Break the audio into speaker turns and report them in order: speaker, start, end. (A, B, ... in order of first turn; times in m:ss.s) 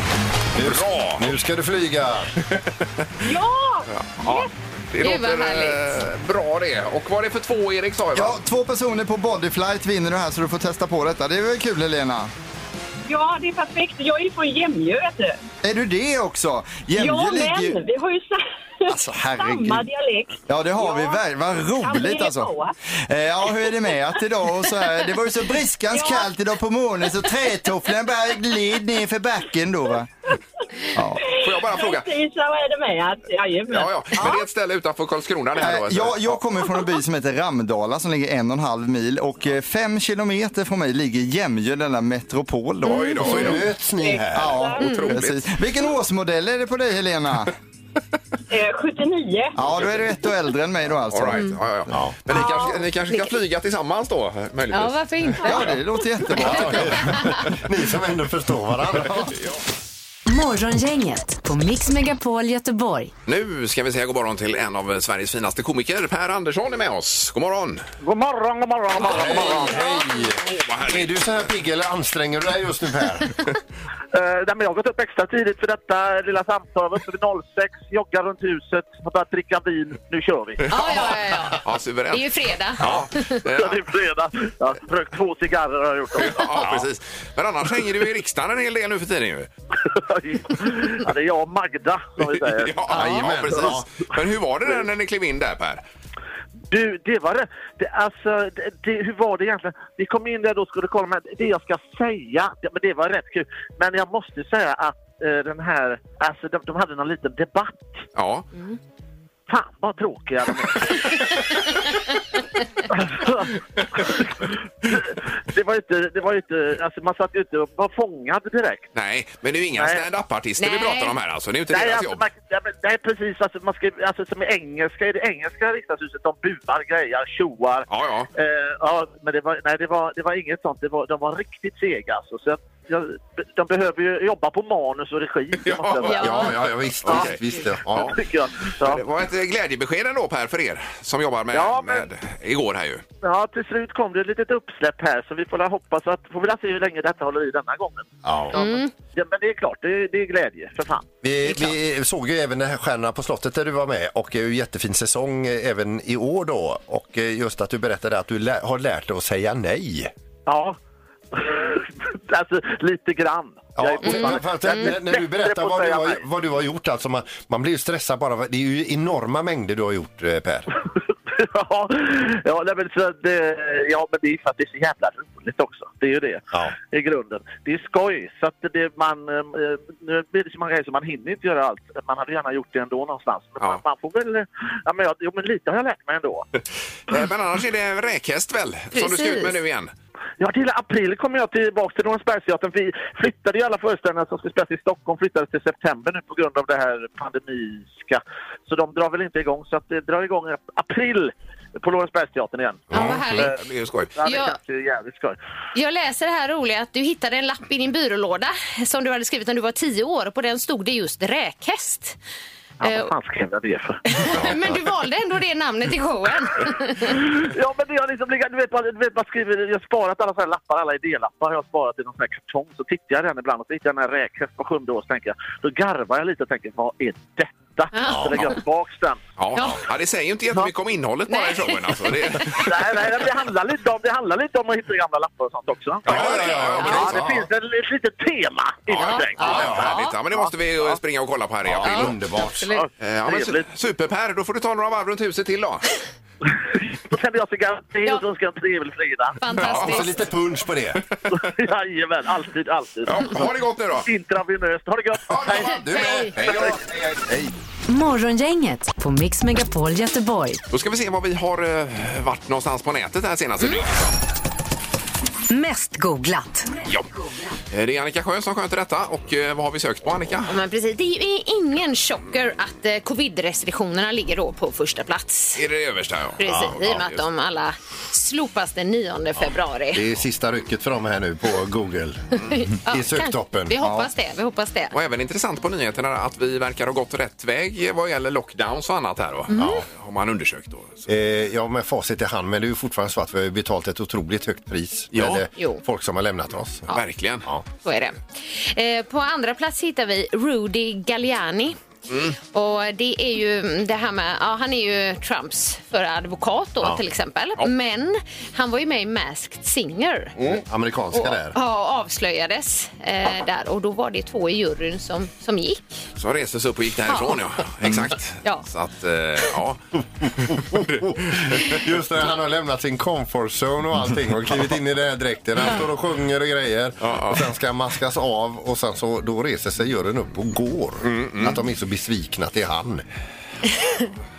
0:00.5-0:02.3 A
0:00.6-0:01.3 B
0:03.2-0:04.5 C
0:03.9-0:08.4 B
0:05.0-0:05.9 D
0:08.1-0:12.3 E
0:13.1-0:15.4 C
0:15.6-0:17.8 E
0:16.9-0:21.2 C
0:18.9-0:19.9 E
0:20.5-0:22.5 E
0:21.8-0:22.7 C
0:23.0-0:30.1 E
0:25.9-0:26.3 C
0:30.9-0:31.2 E
0:31.2-0:32.1 B
0:31.2-0:34.3 C
0:33.7-0:36.4 B
0:35.6-0:43.6 E
0:42.8-0:43.7 B
0:43.2-0:44.7 A
0:44.0-0:44.8 C
0:44.3-0:47.5 E
0:44.8-0:45.5 B
0:44.8-0:45.1 D
0:48.5-0:49.6 C
0:49.5-0:51.5 E
0:51.1-0:55.5 B
0:51.3-0:51.6 D
0:52.3-0:52.8 C
0:54.7-0:55.8 D
0:55.4-0:57.1 E
0:56.3-0:59.3 A
0:56.7-0:57.4 D
1:00.3-1:03.1 F
1:03.2-1:07.8 B
1:08.0-1:09.9 G
1:09.0-1:13.4 A
1:09.1-1:09.6 B
1:10.4-1:11.4 B
1:14.1-1:20.7 G
1:20.7-1:23.9 B
1:20.7-1:23.4 D
1:23.5-1:26.6 G
1:26.2-1:29.5 B
1:26.6-1:26.9 A
1:29.9-1:33.7 G
1:32.3-1:35.8 B
1:32.9-1:33.9 A
1:33.0-1:33.2 D
1:36.7-1:48.0 G
1:48.1-1:48.5 B
1:49.5-1:51.0 G
1:52.9-1:58.9 G
1:58.9-2:02.2 B
1:59.8-2:00.0 G
2:00.6-2:01.1 D
2:01.7-2:17.3 G
2:07.9-2:08.3 B
2:15.6-2:16.5 B
2:16.1-2:16.5 D
2:16.2-2:18.2 A
2:17.0-2:17.4 B
2:17.9-2:18.2 B
2:17.9-2:19.0 G
2:18.8-2:23.0 B
2:21.5-2:22.0 G
2:23.2-2:31.0 G
2:28.2-2:28.6 A
2:28.5-2:28.9 D
2:31.2-2:40.1 A
2:40.4-2:40.8 G
2:41.3-2:46.2 G
2:43.8-2:50.7 A
2:44.0-2:44.9 D
2:51.4-3:06.4 G
3:07.1-3:09.9 B
3:08.9-3:09.5 D
3:10.4-3:23.6 G
3:22.9-3:23.2 A
3:22.9-3:23.5 D
3:23.0-3:24.1 B
3:24.2-3:25.4 G
3:24.2-3:24.6 D
3:25.7-3:32.2 D
3:32.8-3:34.4 G
3:32.8-3:33.1 D
3:34.1-3:37.2 D
3:37.1-3:49.2 G
3:47.9-3:48.5 D
3:48.1-3:48.5 A
3:49.4-3:53.1 B
3:51.3-3:52.4 D
3:52.5-4:00.5 G
3:56.0-3:57.3 B
3:56.0-3:57.5 A
3:58.9-4:02.2 B
3:59.0-4:00.2 D
3:59.4-3:59.8 A
4:01.6-4:02.7 A
4:01.8-4:02.8 D
4:02.7-4:03.7 G
4:03.0-4:05.9 B
4:07.1-4:09.4 G
4:09.4-4:10.2 D
4:09.6-4:10.1 B
4:09.6-4:11.0 A
4:11.1-4:11.4 B
4:11.3-4:16.7 G
4:13.0-4:14.1 B
4:15.3-4:16.8 B
4:15.5-4:17.5 A
4:17.9-4:20.6 F
4:20.7-4:24.2 B
4:25.5-4:26.7 F
4:27.7-4:30.5 B
4:30.5-4:35.6 D
4:35.5-4:37.2 B
4:36.4-4:40.0 D
4:36.4-4:36.8 A
4:39.9-4:43.7 A
4:42.4-4:44.9 D
4:43.8-4:44.1 E
4:44.9-4:51.1 B
4:49.5-4:49.8 D
4:49.5-4:49.8 A
4:51.1-4:56.9 A
4:55.1-4:55.4 B
4:56.9-4:57.5 B
4:57.8-5:01.8 D
5:02.1-5:02.4 B
5:02.4-5:10.3 D
5:10.4-5:11.5 A
5:11.1-5:15.8 D
5:16.2-5:19.8 B
5:17.1-5:17.3 D
5:20.4-5:21.1 B
5:20.8-5:33.0 A
5:27.0-5:27.4 B
5:31.0-5:31.6 B
5:33.7-5:34.1 D